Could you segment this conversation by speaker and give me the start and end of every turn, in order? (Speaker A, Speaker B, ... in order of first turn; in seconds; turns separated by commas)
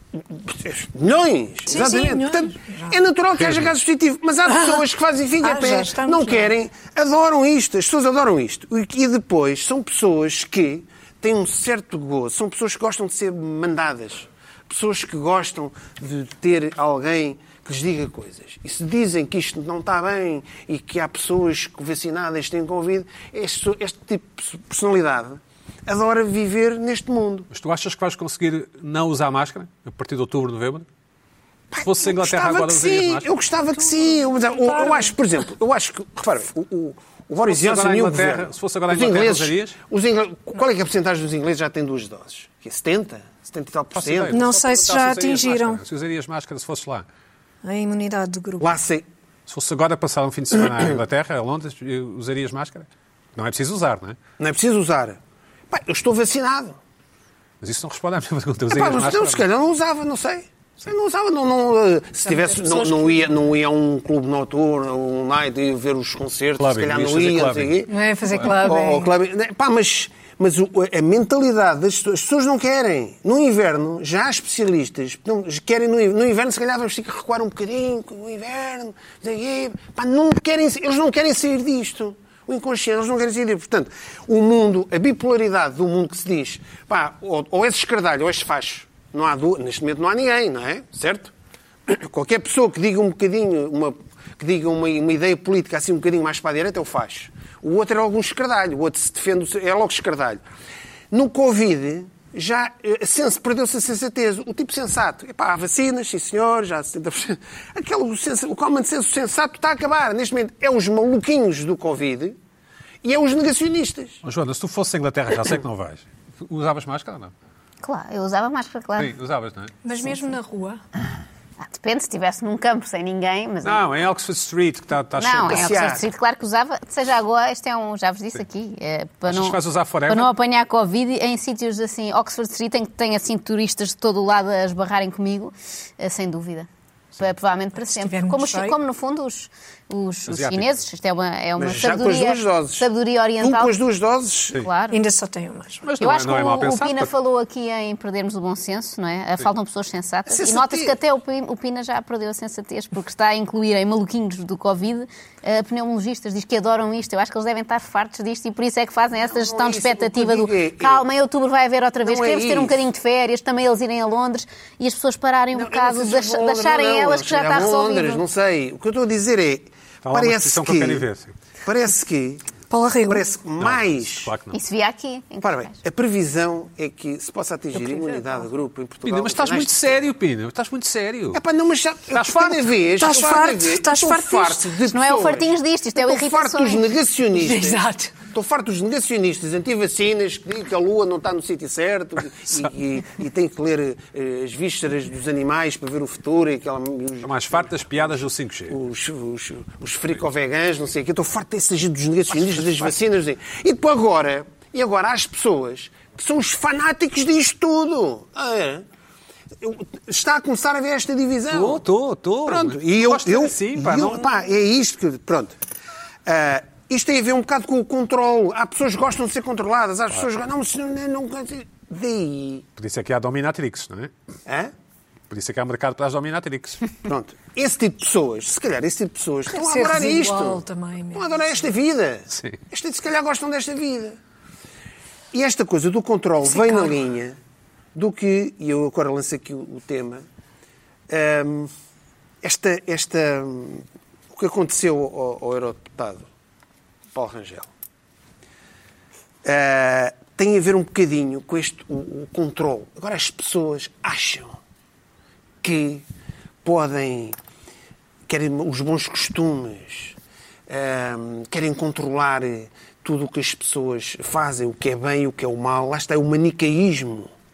Speaker A: 0.1-27.5, Speaker B: 1.7-3.0, Speaker B: 4.5-4.9, Speaker B: 5.4-6.5, Speaker C: 27.5-30.9, Speaker A: 31.7-44.4, Speaker C: 31.8-33.3, Speaker B: 34.6-35.1, Speaker C: 37.4-39.8, Speaker C: 43.9-47.0, Speaker B: 44.3-45.8, Speaker B: 47.6-48.7, Speaker A: 48.6-49.0, Speaker C: 49.5-54.2, Speaker A: 54.4-56.8, Speaker C: 57.6-59.5, Speaker A: 58.7-91.3, Speaker B: 62.2-63.3, Speaker C: 66.6-67.8, Speaker B: 67.9-69.1, Speaker A: 91.9-100.4, Speaker A: 101.1-112.4, Speaker A: 113.0-114.2, Speaker C: 114.2-117.3, Speaker D: 117.8-119.1, Speaker C: 119.0-119.7, Speaker B: 119.8-120.8, Speaker D: 121.7-123.8, Speaker C: 123.6-125.8, Speaker D: 125.2-143.8, Speaker A: 125.5-126.1, Speaker C: 129.3-130.3, Speaker B: 137.8-138.8, Speaker C: 140.3-140.8, Speaker A: 141.6-142.9, Speaker A: 143.4-144.6, Speaker D: 144.6-145.0, Speaker B: 144.9-145.8, Speaker C: 145.8-147.1, Speaker D: 146.0-168.2, Speaker A: 150.3-150.9, Speaker A: 159.2-161.1, Speaker A: 162.0-162.8, Speaker A: 165.5-171.1, Speaker C: 170.0-171.3, Speaker A: 171.6-172.4, Speaker B: 172.7-173.2, Speaker A: 173.1-174.3, Speaker C: 173.6-174.6, Speaker D: 174.5-175.7, Speaker A: 175.4-180.0, Speaker B: 177.9-178.2, Speaker C: 179.0-181.4, Speaker A: 181.3-208.8, Speaker C: 182.1-182.7, Speaker B: 183.0-184.8, Speaker D: 184.9-186.9, Speaker B: 187.3-188.1, Speaker C: 197.2-198.8, Speaker C: 202.4-202.9, Speaker A: 209.6-211.8, Speaker C: 211.5-214.2, Speaker A: 212.4-215.6, Speaker A: 216.2-222.7, Speaker C: 222.8-224.1, Speaker A: 224.4-224.7, Speaker C: 225.3-226.9, Speaker A: 227.0-230.6, Speaker B: 229.5-231.6, Speaker A: 231.1-234.2, Speaker C: 232.3-232.6, Speaker A: 235.3-237.4, Speaker B: 236.4-237.0, Speaker A: 237.9-240.2, Speaker A: 241.1-241.7, Speaker A: 242.4-246.3, Speaker A: 247.1-247.7, Speaker A: 249.4-254.6, Speaker A: 255.6-256.0, Speaker A: 256.6-257.4, Speaker A: 258.3-260.1, Speaker A: 260.7-267.3